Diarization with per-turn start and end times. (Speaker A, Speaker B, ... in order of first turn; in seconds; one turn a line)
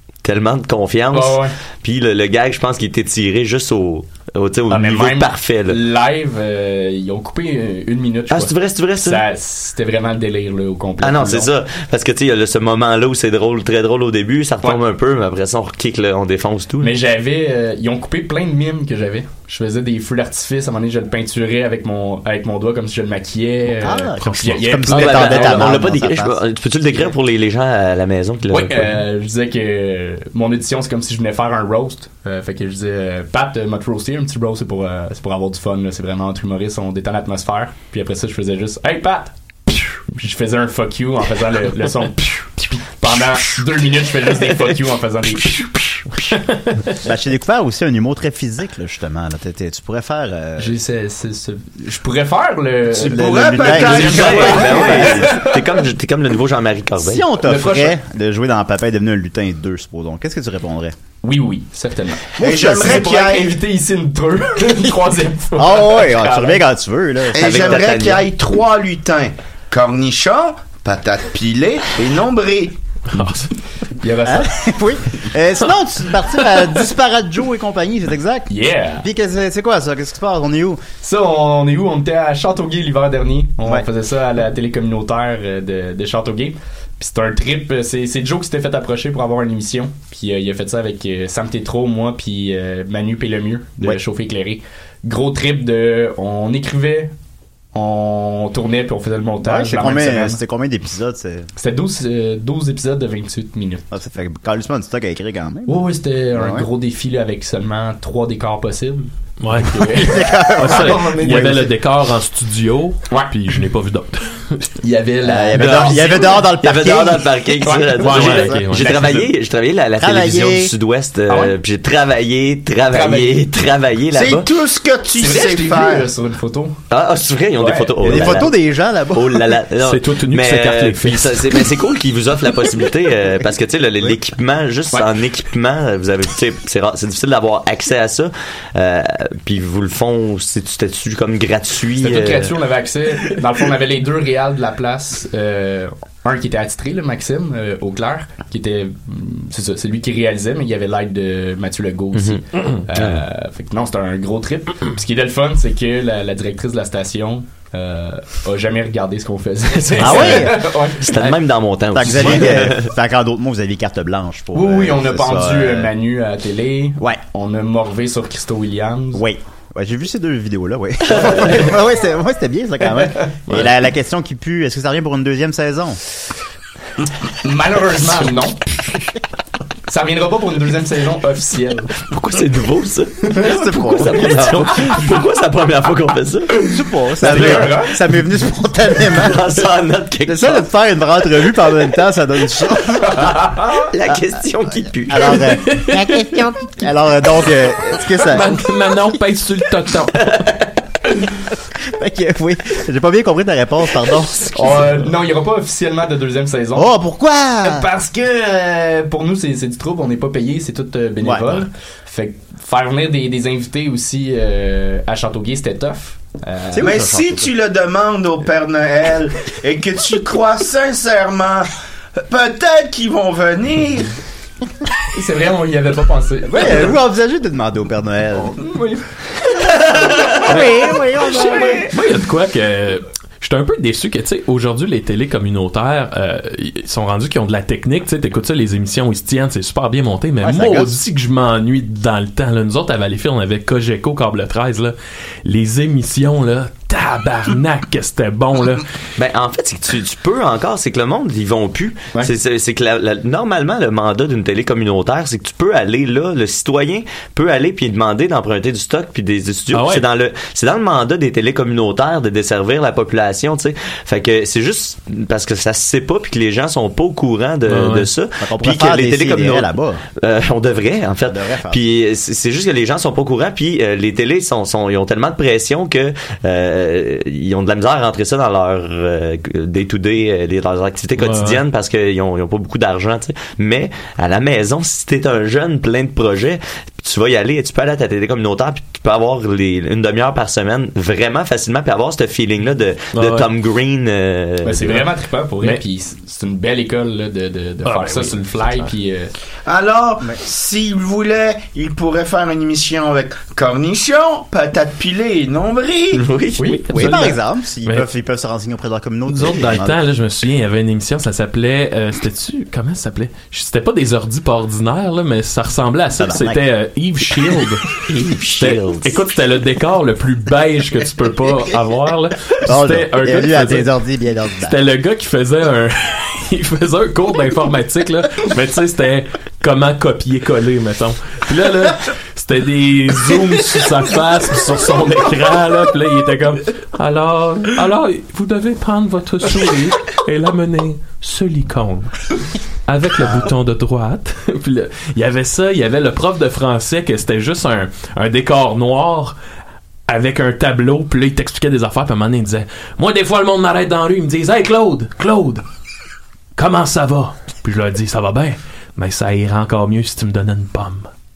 Speaker A: 0.2-5.8
Speaker B: 1.1-1.5
Speaker B: 4.7-11.5
Speaker A: 8.3-9.2
Speaker A: 11.0-16.9
Speaker B: 16.8-25.9
Speaker C: 23.8-26.4
Speaker D: 24.2-24.6
Speaker A: 24.8-29.0
Speaker B: 26.9-27.1
Speaker B: 28.5-46.0
Speaker C: 47.0-50.7
Speaker B: 50.6-55.6
Speaker E: 53.0-55.1
Speaker C: 53.0-55.3
Speaker A: 53.8-57.3
Speaker C: 57.0-60.9
Speaker B: 57.4-58.0
Speaker B: 61.2-66.6
Speaker C: 62.4-63.1
Speaker E: 62.4-63.6
Speaker C: 65.6-67.8
Speaker E: 67.3-72.8
Speaker A: 67.4-68.2
Speaker D: 73.1-73.5
Speaker B: 74.0-74.7
Speaker C: 74.2-80.8
Speaker B: 78.5-79.1
Speaker B: 81.0-97.1
Speaker B: 97.7-100.4
Speaker C: 99.4-101.5
Speaker B: 101.5-103.9
Speaker C: 103.9-106.7
Speaker B: 105.7-111.7
Speaker D: 109.4-114.7
Speaker C: 109.8-111.7
Speaker B: 114.8-116.5
Speaker C: 115.2-117.5
Speaker A: 115.5-124.5
Speaker B: 117.6-118.6
Speaker C: 118.0-119.2
Speaker D: 118.0-119.1
Speaker C: 120.0-120.7
Speaker B: 121.3-121.5
Speaker B: 122.9-123.4
Speaker E: 124.1-126.1
Speaker B: 125.2-126.8
Speaker A: 126.9-128.6
Speaker B: 127.6-128.4
Speaker C: 128.0-129.6
Speaker A: 129.1-142.6
Speaker D: 129.8-131.7
Speaker B: 142.0-161.4
Speaker A: 152.1-152.4
Speaker A: 152.9-153.2
Speaker C: 160.0-160.7
Speaker A: 160.0-162.9
Speaker C: 161.9-165.9
Speaker B: 162.2-162.5
Speaker B: 164.5-169.2
Speaker C: 169.1-176.0
Speaker B: 173.1-173.7
Speaker B: 177.4-178.6
Speaker B: 179.9-181.9
Speaker A: 182.0-186.5
Speaker B: 183.2-183.7
Speaker C: 183.3-184.7
Speaker C: 186.7-189.7
Speaker B: 187.2-188.0
Speaker A: 187.3-187.6
Speaker A: 189.1-190.7
Speaker C: 190.2-198.6
Speaker B: 193.1-193.8
Speaker A: 193.8-195.4
Speaker D: 195.7-196.3
Speaker D: 198.2-200.5
Speaker C: 201.8-205.0
Speaker B: 204.5-206.9
Speaker C: 206.7-207.9
Speaker B: 207.6-216.9
Speaker C: 211.2-211.6
Speaker C: 216.7-217.5
Speaker E: 216.8-224.1
Speaker B: 225.1-226.9
Speaker C: 226.5-228.6
Speaker B: 228.4-229.0
Speaker C: 230.4-231.9
Speaker D: 231.9-248.8
Speaker C: 240.4-240.9
Speaker A: 249.2-295.0
Speaker D: 259.7-260.0
Speaker D: 267.7-268.1
Speaker C: 268.4-270.0
Speaker C: 271.2-271.8
Speaker D: 281.2-281.6
Speaker D: 293.1-293.5
Speaker B: 294.6-299.3
Speaker D: 297.8-298.8
Speaker E: 299.6-306.2
Speaker A: 306.1-307.0
Speaker B: 306.6-307.3
Speaker C: 306.9-310.0
Speaker D: 309.3-318.0
Speaker C: 316.2-316.6
Speaker A: 318.1-319.2
Speaker D: 318.6-323.9
Speaker C: 322.6-324.8
Speaker D: 324.6-342.1
Speaker D: 342.9-349.3
Speaker D: 350.1-355.6
Speaker D: 356.6-361.1